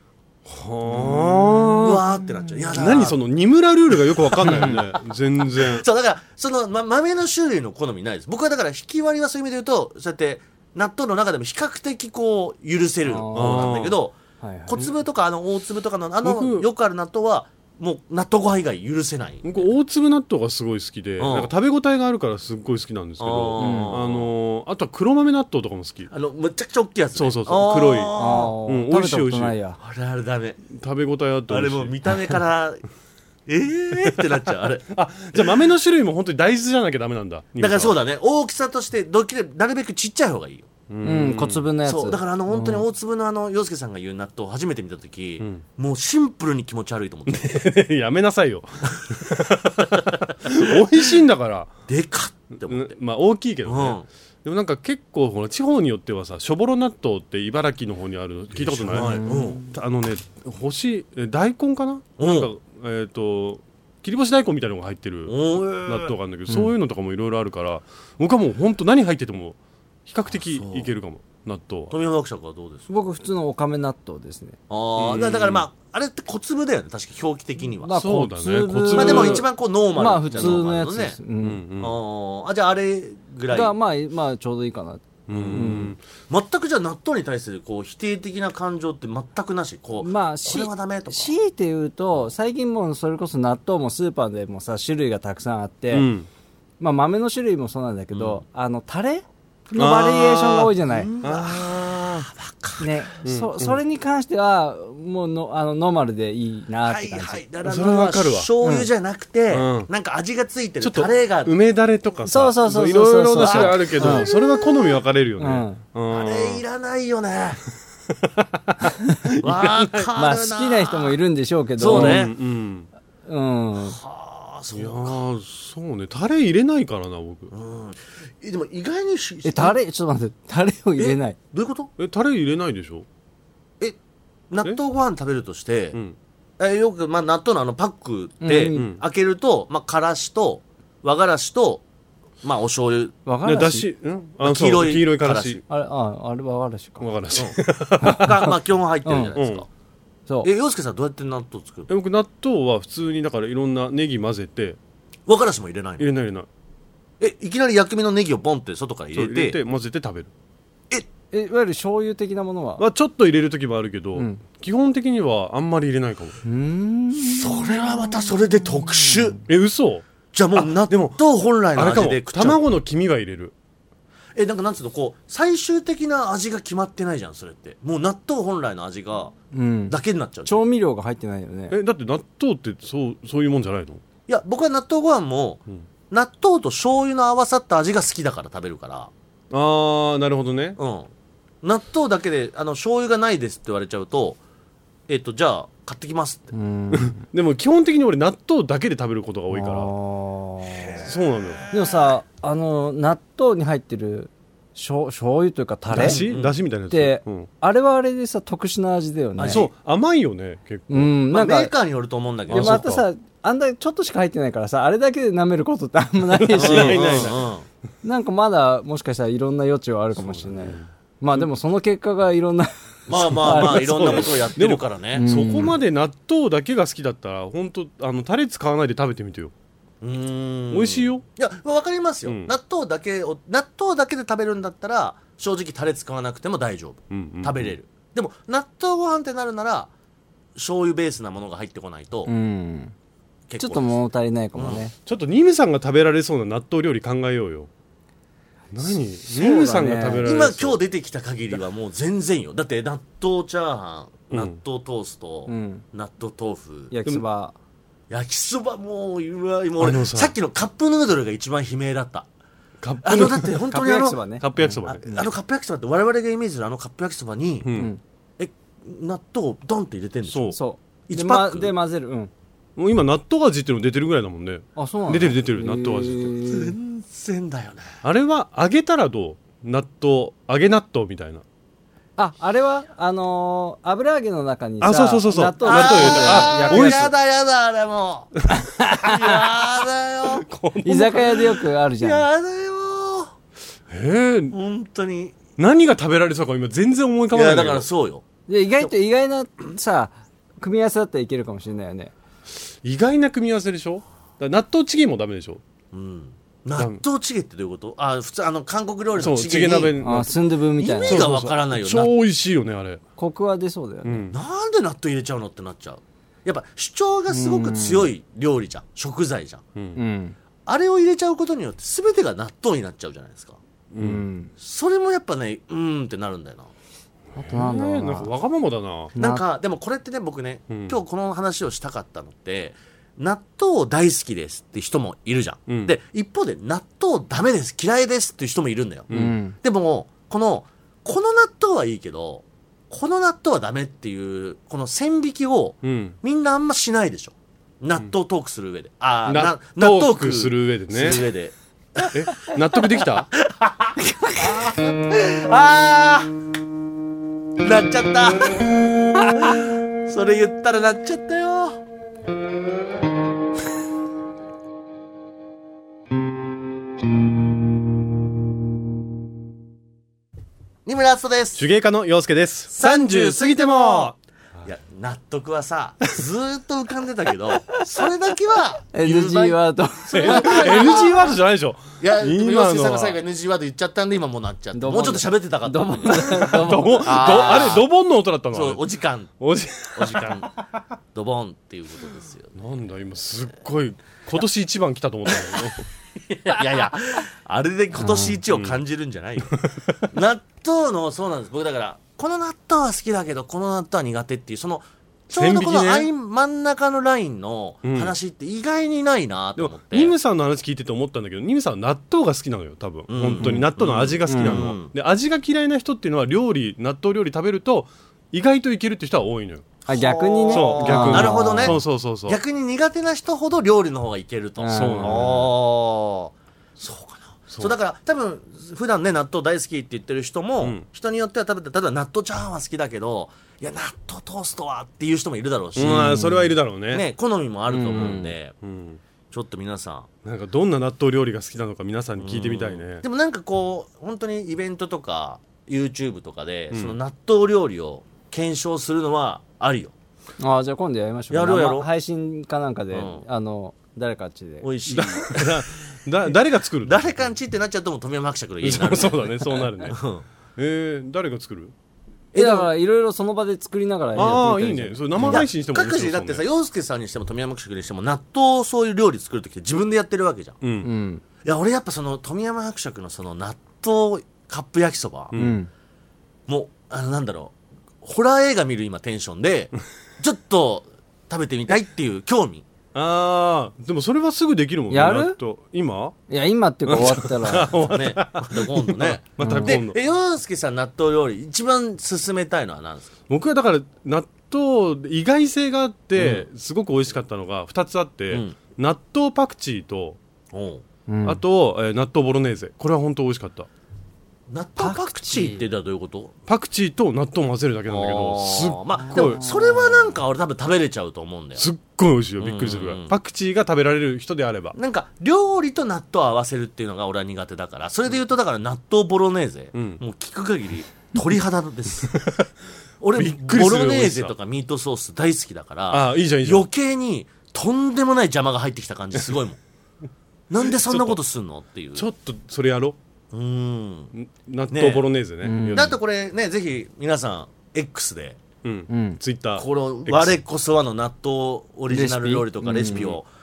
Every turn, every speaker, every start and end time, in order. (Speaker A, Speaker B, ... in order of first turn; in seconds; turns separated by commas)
Speaker A: 0.5-2.0, Speaker B: 0.9-1.9, Speaker C: 1.8-3.2, Speaker A: 2.7-5.9, Speaker C: 3.9-19.6, Speaker B: 4.5-4.8, Speaker B: 13.1-13.8, Speaker A: 13.3-14.0, Speaker B: 14.4-14.9, Speaker A: 16.2-16.7, Speaker A: 19.4-26.1, Speaker C: 21.2-21.5, Speaker C: 23.2-24.3, Speaker B: 23.6-24.0, Speaker C: 26.1-28.5, Speaker A: 27.1-29.6, Speaker B: 28.1-29.8, Speaker C: 29.8-30.6, Speaker A: 30.7-32.0, Speaker C: 31.5-32.8, Speaker C: 33.5-34.9, Speaker A: 34.9-38.0, Speaker C: 37.6-40.7, Speaker A: 40.9-41.7, Speaker B: 41.0-42.8, Speaker C: 41.9-47.6, Speaker A: 47.3-51.7, Speaker C: 49.9-50.8, Speaker C: 51.9-53.0, Speaker A: 52.6-69.6, Speaker C: 53.7-54.1, Speaker C: 58.6-59.6, Speaker B: 59.0-59.7, Speaker C: 62.2-62.5, Speaker C: 65.3-66.1, Speaker A: 70.1-71.9, Speaker C: 70.4-70.9, Speaker C: 71.9-72.9, Speaker B: 72.9-74.6, Speaker C: 74.7-78.0, Speaker A: 75.0-75.7, Speaker B: 77.8-81.6, Speaker A: 77.9-79.5, Speaker C: 78.9-81.2, Speaker A: 80.3-80.6, Speaker A: 81.4-82.0, Speaker C: 81.8-83.7, Speaker B: 83.5-86.0, Speaker A: 85.3-86.0, Speaker C: 85.4-85.7, Speaker C: 86.3-91.3, Speaker B: 90.0-96.1, Speaker A: 95.9-96.3, Speaker B: 96.8-101.1, Speaker C: 98.1-98.4, Speaker A: 99.8-101.7, Speaker C: 100.9-102.9, Speaker B: 102.8-107.4, Speaker A: 103.2-103.8, Speaker C: 106.8-111.5, Speaker A: 107.6-108.5, Speaker B: 108.6-108.9, Speaker A: 109.5-109.9, Speaker A: 110.8-116.6, Speaker B: 112.3-114.3, Speaker C: 113.4-115.0, Speaker B: 115.4-115.8, Speaker C: 116.1-117.6, Speaker A: 118.3-120.1, Speaker C: 119.4-121.2, Speaker B: 120.2-122.3, Speaker C: 121.8-122.3, Speaker A: 121.9-122.9, Speaker B: 123.3-124.0, Speaker C: 123.9-125.2, Speaker A: 124.8-127.5, Speaker C: 127.5-129.8, Speaker B: 129.4-131.4, Speaker C: 131.0-131.9, Speaker A: 132.0-133.1, Speaker C: 134.5-136.0, Speaker C: 136.6-141.8, Speaker B: 138.4-138.9, Speaker A: 138.7-139.0, Speaker C: 142.4-143.1, Speaker B: 143.3-143.9, Speaker A: 143.4-145.6, Speaker C: 144.4-145.6, Speaker B: 145.7-147.1, Speaker A: 147.0-148.4, Speaker B: 148.0-148.3, Speaker C: 148.1-149.7, Speaker B: 149.1-149.3, Speaker A: 149.4-149.7, Speaker C: 150.4-151.9, Speaker A: 151.9-154.8, Speaker C: 155.3-156.1, Speaker A: 156.0-156.5, Speaker C: 157.2-159.6, Speaker A: 159.1-160.3, Speaker B: 161.3-162.8, Speaker A: 162.8-166.4, Speaker B: 164.2-164.4, Speaker B: 166.4-167.7, Speaker C: 167.2-169.4, Speaker A: 169.5-170.0, Speaker C: 170.3-172.6, Speaker A: 170.6-171.2, Speaker A: 171.7-173.5, Speaker C: 174.3-179.3, Speaker B: 179.5-181.8, Speaker C: 179.9-180.6, Speaker A: 181.7-184.0, Speaker C: 184.3-189.1, Speaker A: 189.5-190.8, Speaker C: 190.8-191.1, Speaker C: 191.6-194.4, Speaker C: 195.1-196.5, Speaker B: 196.5-197.2, Speaker A: 196.9-199.9, Speaker B: 199.5-201.1, Speaker A: 201.0-201.6, Speaker B: 201.7-206.2, Speaker A: 205.9-207.5, Speaker C: 206.0-206.5, Speaker B: 206.9-209.7, Speaker C: 209.4-209.7, Speaker A: 209.5-211.1, Speaker B: 210.9-211.7, Speaker C: 211.3-213.0, Speaker A: 212.5-213.0, Speaker B: 212.5-217.3, Speaker A: 216.3-217.4, Speaker C: 216.6-217.7, Speaker B: 218.0-224.3, Speaker A: 220.2-220.8, Speaker C: 223.1-225.2, Speaker A: 223.4-229.5, Speaker B: 225.2-225.8, Speaker C: 230.0-239.9, Speaker A: 230.7-231.2, Speaker A: 232.3-232.5, Speaker A: 237.1-237.7, Speaker C: 240.6-242.3, Speaker B: 242.3-242.9, Speaker C: 243.5-244.0, Speaker B: 243.6-244.9, Speaker C: 244.6-244.8, Speaker A: 245.1-247.7, Speaker A: 248.7-250.8, Speaker B: 249.3-250.2, Speaker C: 250.2-256.9, Speaker A: 254.3-254.6, Speaker B: 255.5-255.8, Speaker B: 256.9-257.6, Speaker C: 258.1-262.3, Speaker A: 259.8-260.3, Speaker A: 262.8-263.7, Speaker C: 263.0-264.2, Speaker B: 263.7-265.0, Speaker A: 264.4-265.1, Speaker C: 265.0-267.7, Speaker A: 267.6-267.9, Speaker B: 267.8-268.0, Speaker C: 268.4-270.6, Speaker A: 270.3-270.6, Speaker B: 270.5-272.3, Speaker C: 271.1-271.7, Speaker A: 272.8-276.3, Speaker B: 274.8-276.8, Speaker C: 276.5-277.9, Speaker A: 278.0-281.4, Speaker B: 282.2-287.1, Speaker A: 284.8-287.1, Speaker C: 285.6-288.4, Speaker C: 289.0-290.5, Speaker A: 290.3-291.5, Speaker B: 290.8-292.3, Speaker C: 292.0-293.3, Speaker A: 293.9-294.6, Speaker C: 294.5-295.4, Speaker A: 295.6-297.9, Speaker C: 297.3-298.2, Speaker B: 298.5-302.1, Speaker A: 302.8-305.6, Speaker C: 305.9-309.9, Speaker A: 306.8-307.0, Speaker A: 309.2-310.4, Speaker B: 310.0-311.3, Speaker C: 310.8-312.1, Speaker A: 311.1-313.0, Speaker B: 313.2-314.3, Speaker A: 314.1-314.4, Speaker C: 314.3-319.6, Speaker B: 317.3-318.1, Speaker B: 320.0-320.4, Speaker C: 320.7-323.6, Speaker A: 323.9-324.2, Speaker B: 324.0-324.5, Speaker C: 324.6-326.7, Speaker B: 327.4-328.3, Speaker A: 327.4-329.1, Speaker B: 329.1-329.4, Speaker C: 329.2-339.1, Speaker A: 330.7-331.0, Speaker A: 335.7-335.9, Speaker A: 339.1-339.4, Speaker B: 339.1-339.6, Speaker C: 339.6-356.3, Speaker A: 345.8-346.2, Speaker A: 349.3-351.2, Speaker A: 352.1-353.3, Speaker C: 357.6-361.8, Speaker C: 370.9-371.6, Speaker A: 371.6-374.2, Speaker C: 372.7-374.1, Speaker C: 374.6-381.3, Speaker B: 378.9-381.0, Speaker A: 380.1-383.2, Speaker C: 382.0-387.9, Speaker B: 384.7-387.7, Speaker A: 386.5-390.5, Speaker C: 388.5-389.4, Speaker C: 390.0-390.5, Speaker C: 391.1-392.5, Speaker A: 392.6-395.9, Speaker C: 396.2-410.1, Speaker A: 398.4-398.8, Speaker A: 399.5-400.1, Speaker A: 405.3-406.1, Speaker A: 407.8-408.1, Speaker A: 409.6-419.7, Speaker C: 413.1-414.9, Speaker B: 413.4-413.7, Speaker B: 414.3-414.7, Speaker B: 419.9-421.8, Speaker C: 419.9-436.3, Speaker A: 420.5-422.4, Speaker B: 424.6-425.4, Speaker A: 424.7-425.5, Speaker A: 435.8-437.1, Speaker B: 435.8-436.6, Speaker C: 436.9-438.6, Speaker B: 437.7-438.3, Speaker A: 437.9-439.0, Speaker C: 439.3-440.1, Speaker A: 440.2-443.0, Speaker C: 442.2-449.9, Speaker B: 450.4-454.7, Speaker C: 451.3-451.9, Speaker C: 452.9-453.2, Speaker C: 454.6-455.7, Speaker A: 454.9-457.1, Speaker C: 456.8-460.2, Speaker A: 458.6-460.0, Speaker A: 460.6-461.7, Speaker C: 462.3-462.7, Speaker B: 462.4-465.4, Speaker A: 464.1-466.4, Speaker C: 465.2-470.6, Speaker A: 470.6-470.9, Speaker B: 470.8-471.2, Speaker C: 471.4-475.3, Speaker B: 475.4-475.7, Speaker C: 476.5-482.7, Speaker A: 482.9-486.1, Speaker B: 484.9-485.4, Speaker B: 486.3-487.7, Speaker A: 486.9-490.0, Speaker C: 487.7-493.1, Speaker B: 489.4-489.8, Speaker A: 493.3-500.2, Speaker C: 496.2-496.5, Speaker C: 498.3-498.6, Speaker C: 500.5-500.8, Speaker B: 501.1-501.4, Speaker A: 501.3-503.7, Speaker C: 504.5-506.3, Speaker B: 504.8-505.6, Speaker A: 506.5-509.4, Speaker C: 507.9-511.6, Speaker B: 509.1-509.8, Speaker A: 511.6-514.8, Speaker C: 512.4-513.1, Speaker C: 514.7-522.2, Speaker A: 519.7-520.0, Speaker A: 522.1-522.5, Speaker C: 523.0-529.6, Speaker A: 523.1-524.3, Speaker A: 525.9-526.7, Speaker C: 530.5-532.1, Speaker A: 530.8-531.2, Speaker A: 532.0-533.0, Speaker C: 533.3-534.1, Speaker A: 534.1-536.0, Speaker C: 534.7-535.1, Speaker B: 535.4-536.0, Speaker C: 535.8-538.4, Speaker A: 538.6-540.4, Speaker B: 538.9-539.2, Speaker C: 539.6-543.3, Speaker B: 541.9-543.0, Speaker A: 542.9-543.2